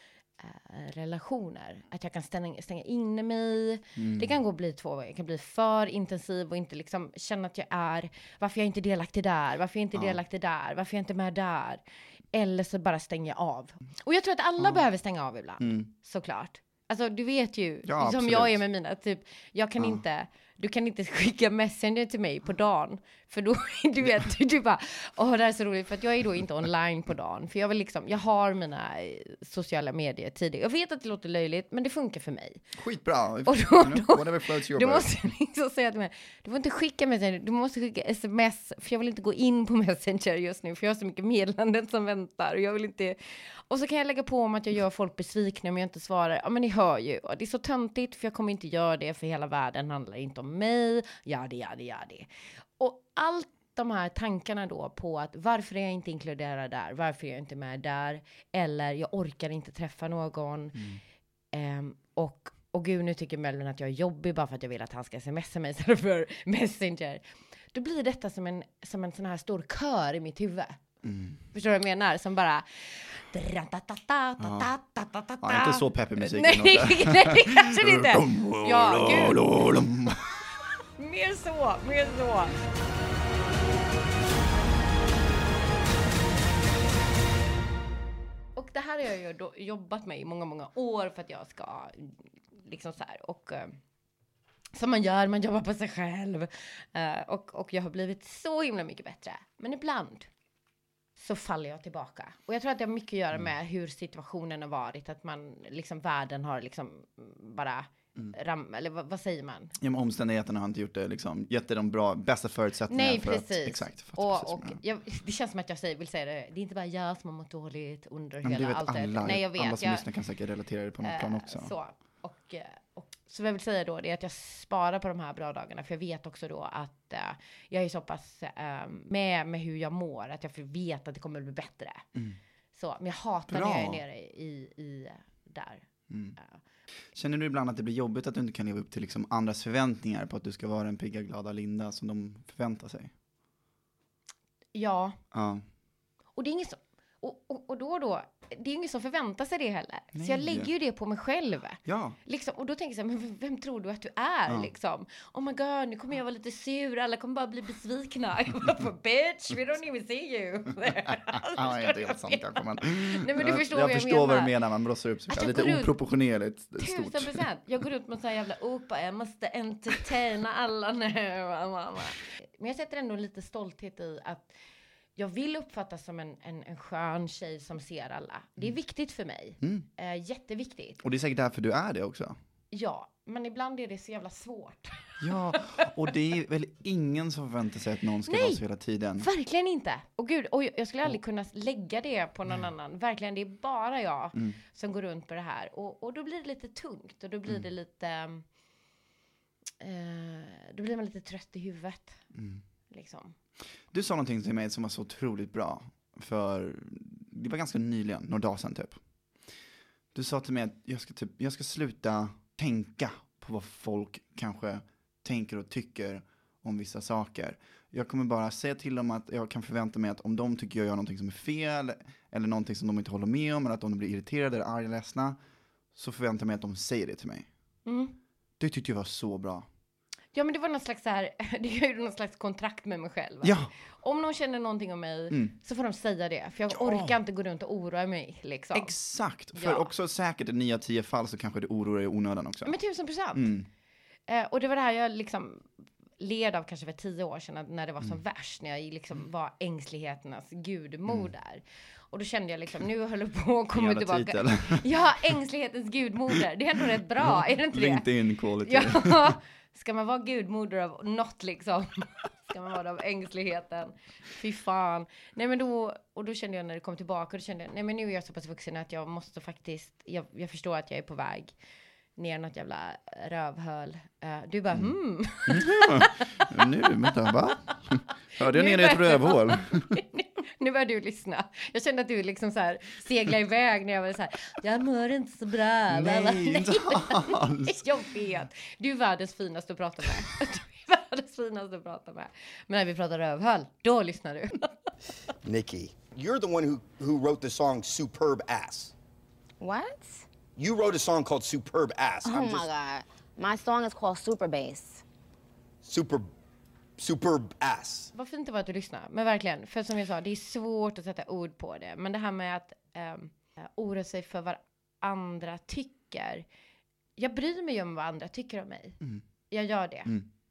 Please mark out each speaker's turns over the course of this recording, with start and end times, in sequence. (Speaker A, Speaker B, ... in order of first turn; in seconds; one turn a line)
Speaker A: 0.4-32.6
Speaker B: 4.0-4.3
Speaker B: 15.6-15.9
Speaker B: 17.8-18.6
Speaker B: 32.7-35.2
Speaker A: 33.5-60.9
Speaker B: 60.8-61.0
Speaker A: 61.5-70.8
Speaker B: 71.0-71.4
Speaker A: 71.5-79.4
Speaker B: 74.4-74.7
Speaker B: 75.4-80.4
Speaker A: 81.0-82.5
Speaker A: 88.5-93.7
Speaker A: 94.7-100.3
Speaker A: 101.2-109.7
Speaker B: 109.8-114.8
Speaker A: 112.9-120.0
Speaker B: 118.4-121.7
Speaker A: 121.0-132.0
Speaker A: 132.7-136.6
Speaker B: 133.5-134.0
Speaker B: 136.1-136.4
Speaker B: 137.1-143.1
Speaker A: 144.7-145.2
Speaker B: 145.3-145.6
Speaker A: 146.3-164.5
Speaker B: 150.1-150.7
Speaker B: 151.8-152.2
Speaker B: 161.4-167.4
Speaker A: 165.3-165.9
Speaker A: 166.8-174.5
Speaker A: 175.2-181.0
Speaker B: 181.0-182.3
Speaker A: 182.7-185.6
Speaker B: 185.2-189.3
Speaker A: 188.3-188.6
Speaker A: 189.2-198.4
Speaker A: 199.8-202.2
Speaker B: 202.3-202.6
Speaker A: 202.9-203.3
Speaker B: 203.9-209.0
Speaker B: 210.1-225.4
Speaker B: 225.9-227.5
Speaker A: 227.8-228.1
Speaker B: 228.6-229.7
Speaker A: 230.3-238.9
Speaker B: 233.4-233.7
Speaker B: 236.7-237.2
Speaker B: 238.7-242.7
Speaker A: 239.5-239.9
Speaker A: 242.6-243.5
Speaker B: 243.3-243.7
Speaker A: 244.3-258.1
Speaker B: 253.7-254.8
Speaker B: 257.2-259.4
Speaker A: 258.6-271.5
Speaker A: 272.1-276.6
Speaker B: 275.5-279.9
Speaker A: 278.4-294.7
Speaker B: 285.9-287.9
Speaker C: 295.4-298.9
Speaker D: 299.6-300.3
Speaker C: 300.6-302.7
Speaker D: 302.2-305.0
Speaker C: 305.8-306.3
Speaker C: 307.0-308.1
Speaker A: 308.1-316.4
Speaker A: 317.2-320.2